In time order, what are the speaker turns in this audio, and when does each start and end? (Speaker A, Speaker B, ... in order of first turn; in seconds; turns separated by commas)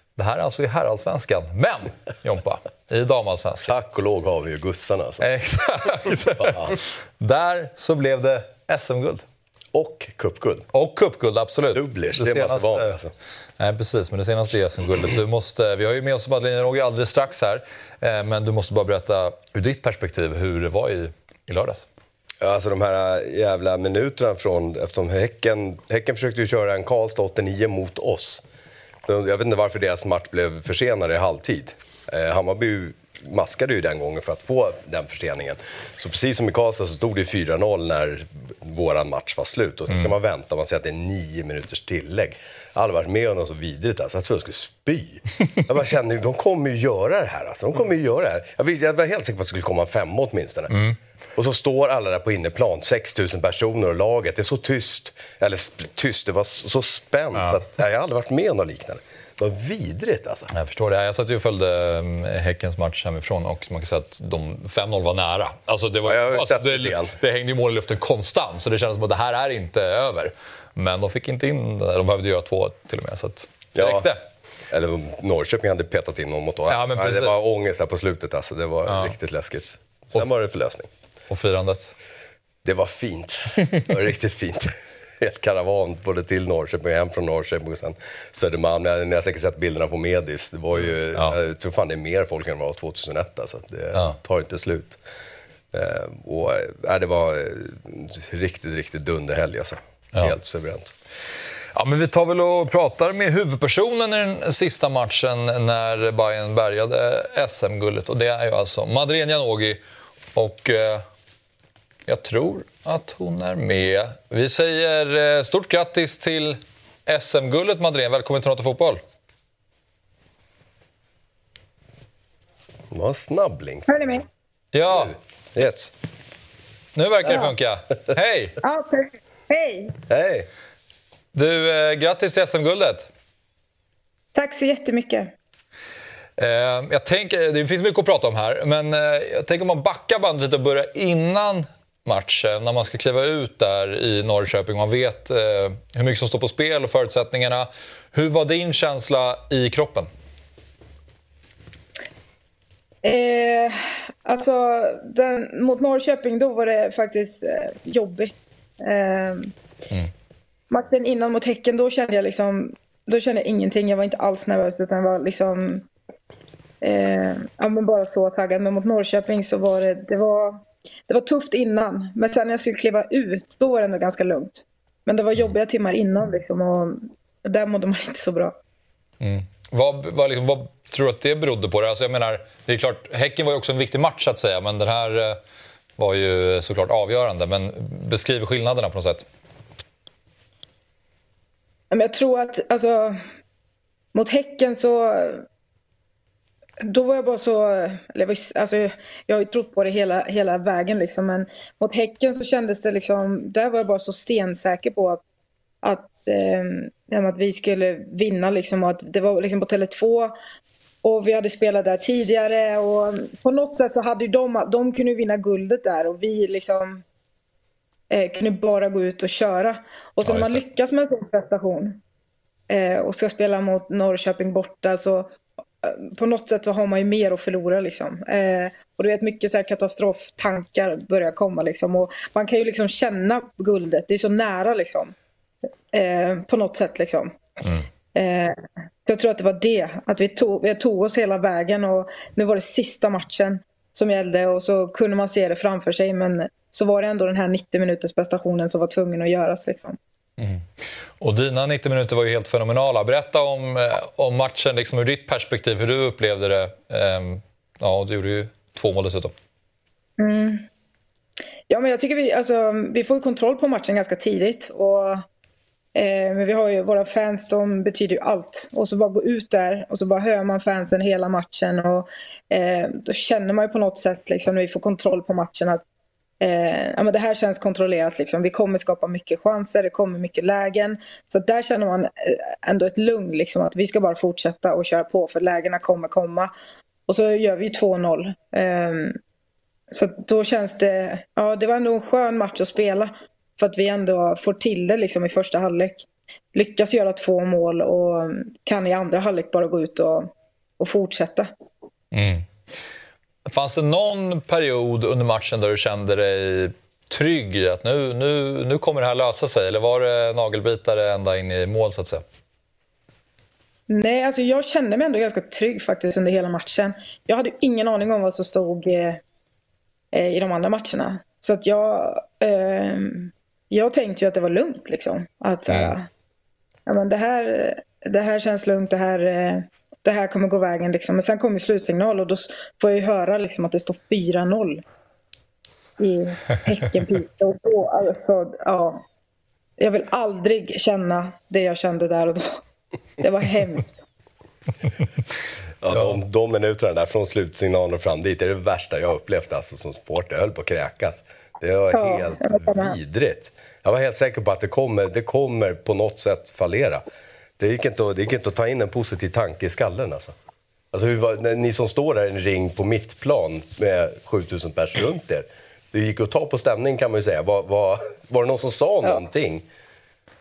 Speaker A: 0.1-3.7, Speaker B: 3.7-5.2, Speaker A: 5.2-9.2, Speaker B: 6.3-6.8, Speaker B: 9.7-10.7, Speaker A: 10.7-12.9, Speaker B: 11.7-13.1, Speaker A: 13.6-21.9, Speaker B: 22.4-28.4, Speaker B: 29.1-50.8, Speaker A: 50.7-51.0, Speaker B: 51.4-60.5, Speaker A: 60.5-74.2, Speaker B: 66.0-67.1, Speaker B: 73.8-74.1, Speaker B: 74.7-80.9, Speaker A: 76.7-77.3, Speaker A: 78.8-79.1, Speaker A: 81.3-81.9, Speaker B: 82.6-95.0, Speaker B: 95.7-100.9, Speaker A: 101.7-109.8, Speaker A: 110.3-111.0, Speaker A: 112.1-119.0, Speaker B: 122.9-123.8, Speaker C: 123.9-124.2, Speaker A: 124.7-125.2, Speaker B: 124.9-125.9, Speaker A: 126.9-128.6, Speaker C: 128.6-129.9, Speaker B: 130.1-130.5, Speaker A: 131.3-133.1, Speaker C: 134.3-135.3, Speaker A: 136.4-150.1, Speaker C: 153.0-159.5, Speaker C: 160.7-165.8, Speaker C: 166.8-178.5, Speaker A: 179.2-185.4, Speaker A: 186.0-189.2, Speaker C: 191.9-193.2, Speaker C: 194.1-195.4, Speaker C: 196.8-205.2, Speaker C: 205.8-210.3, Speaker C: 211.0-217.0, Speaker C: 218.1-222.0, Speaker A: 220.2-220.6, Speaker C: 222.7-225.3, Speaker C: 225.8-235.1, Speaker C: 235.9-250.0, Speaker A: 250.4-250.6, Speaker A: 251.2-259.3, Speaker C: 260.2-260.7, Speaker C: 261.7-265.2, Speaker C: 265.9-275.8, Speaker C: 276.4-286.5, Speaker C: 287.1-289.2, Speaker C: 289.9-301.5, Speaker A: 302.1-302.4, Speaker A: 303.5-312.2, Speaker C: 313.9-319.2, Speaker C: 320.1-326.1, Speaker C: 326.9-334.8, Speaker C: 336.0-339.0, Speaker C: 339.8-342.6, Speaker C: 343.2-344.0, Speaker B: 345.8-357.0, Speaker C: 351.9-352.9, Speaker B: 357.6-360.3, Speaker B: 360.9-369.6